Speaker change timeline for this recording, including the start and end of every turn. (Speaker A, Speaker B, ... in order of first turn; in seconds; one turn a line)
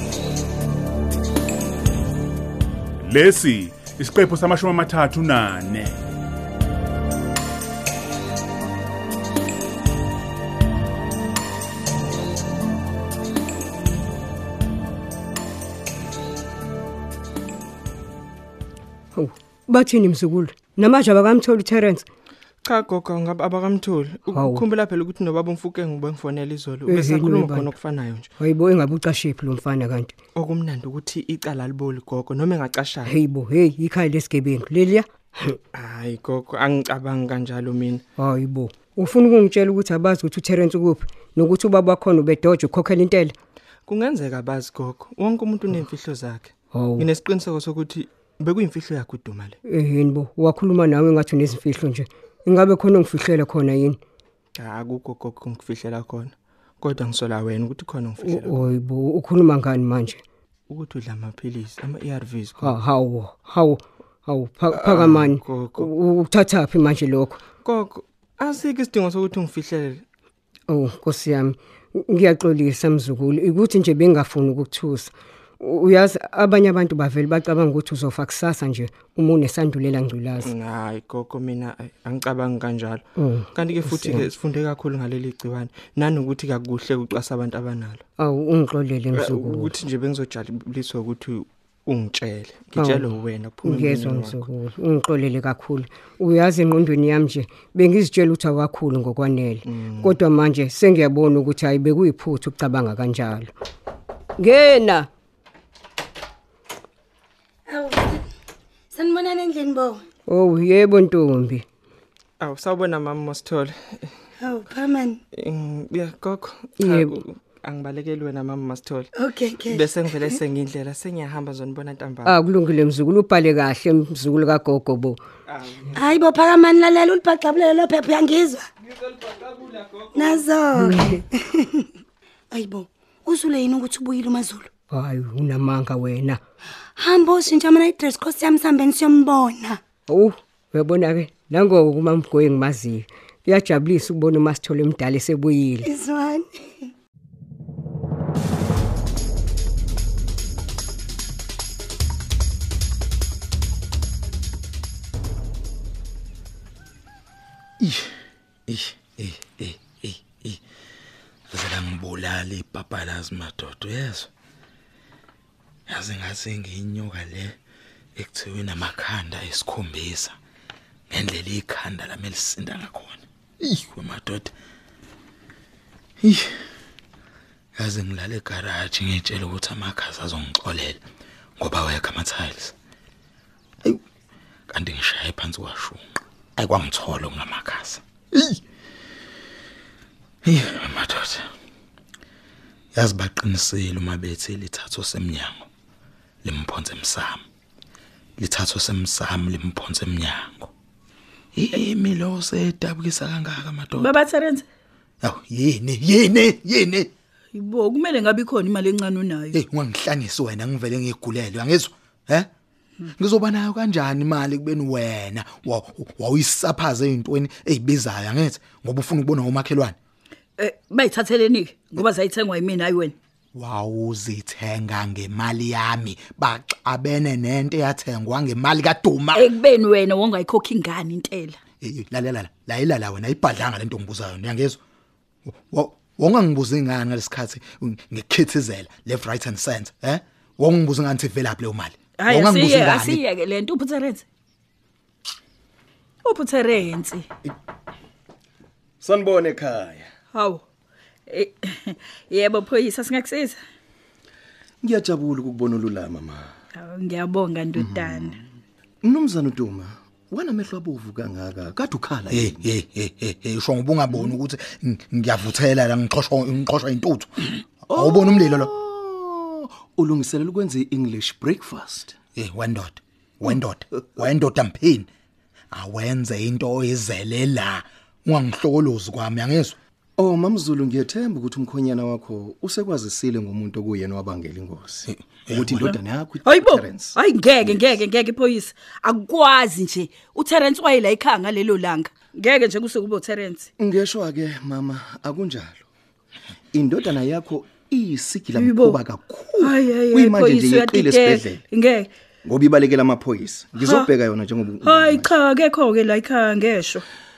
Speaker A: 3.0-6.0
Speaker B: 19.1-22.1
Speaker C: 22.6-28.3
Speaker B: 24.3-24.6
Speaker B: 26.9-27.7
Speaker B: 28.4-30.1
Speaker C: 30.3-33.2
Speaker B: 33.0-35.6
Speaker C: 35.7-38.0
Speaker B: 38.2-43.3
Speaker C: 43.9-49.6
Speaker B: 46.7-47.1
Speaker B: 49.7-54.0
Speaker C: 54.6-58.7
Speaker B: 58.2-60.2
Speaker C: 60.7-62.8
Speaker B: 62.6-67.4
Speaker C: 64.7-65.9
Speaker C: 67.6-70.0
Speaker B: 70.7-80.5
Speaker C: 80.4-88.0
Speaker B: 83.2-84.3
Speaker B: 88.2-89.8
Speaker C: 89.1-94.5
Speaker B: 92.8-93.1
Speaker B: 93.6-103.5
Speaker C: 99.7-100.2
Speaker B: 104.4-105.1
Speaker D: 107.7-108.2
Speaker D: 108.9-110.0
Speaker B: 110.3-111.7
Speaker C: 112.4-114.1
Speaker D: 114.4-115.2
Speaker C: 115.3-119.1
Speaker B: 116.8-117.2
Speaker D: 119.2-120.4
Speaker C: 119.7-122.3
Speaker B: 122.2-125.2
Speaker C: 125.5-126.0
Speaker D: 125.9-128.7
Speaker C: 129.3-130.0
Speaker D: 130.1-131.9
Speaker B: 130.8-131.2
Speaker D: 132.5-134.7
Speaker B: 134.9-136.4
Speaker D: 137.0-139.8
Speaker B: 140.1-145.9
Speaker D: 145.8-146.9
Speaker E: 157.8-158.1
Speaker E: 158.7-160.6
Speaker E: 161.5-164.3
Speaker E: 165.9-167.6
Speaker E: 168.2-170.4
Speaker E: 171.1-174.5
Speaker E: 176.2-176.6
Speaker E: 177.8-181.0
Speaker E: 181.6-182.7
Speaker E: 184.7-186.0
Speaker E: 186.6-188.6
Speaker E: 190.4-191.5
Speaker E: 192.9-195.7
Speaker E: 196.4-197.4
Speaker E: 198.4-200.7
Speaker E: 201.5-204.1
Speaker F: 204.0-204.7
Speaker E: 205.2-207.1
Speaker F: 207.5-209.6
Speaker E: 209.5-212.5
Speaker E: 213.2-220.0
Speaker F: 220.6-223.2
Speaker E: 223.6-229.5
Speaker F: 229.3-231.6
Speaker E: 231.8-234.8
Speaker E: 235.5-243.2
Speaker F: 242.2-244.2
Speaker F: 246.2-247.3
Speaker G: 249.0-250.1
Speaker F: 250.3-250.6
Speaker F: 251.3-253.6
Speaker G: 254.8-256.5
Speaker F: 256.8-258.4
Speaker G: 257.8-258.3
Speaker G: 259.0-262.6
Speaker E: 262.3-268.7
Speaker G: 267.9-272.1
Speaker E: 272.4-275.1
Speaker E: 275.7-279.8
Speaker G: 280.2-287.2
Speaker E: 285.1-286.0
Speaker F: 285.9-293.7
Speaker G: 293.8-295.9
Speaker G: 296.7-301.6
Speaker F: 298.5-299.0
Speaker F: 299.6-302.1
Speaker G: 302.4-305.3
Speaker F: 303.8-304.1
Speaker F: 304.8-307.1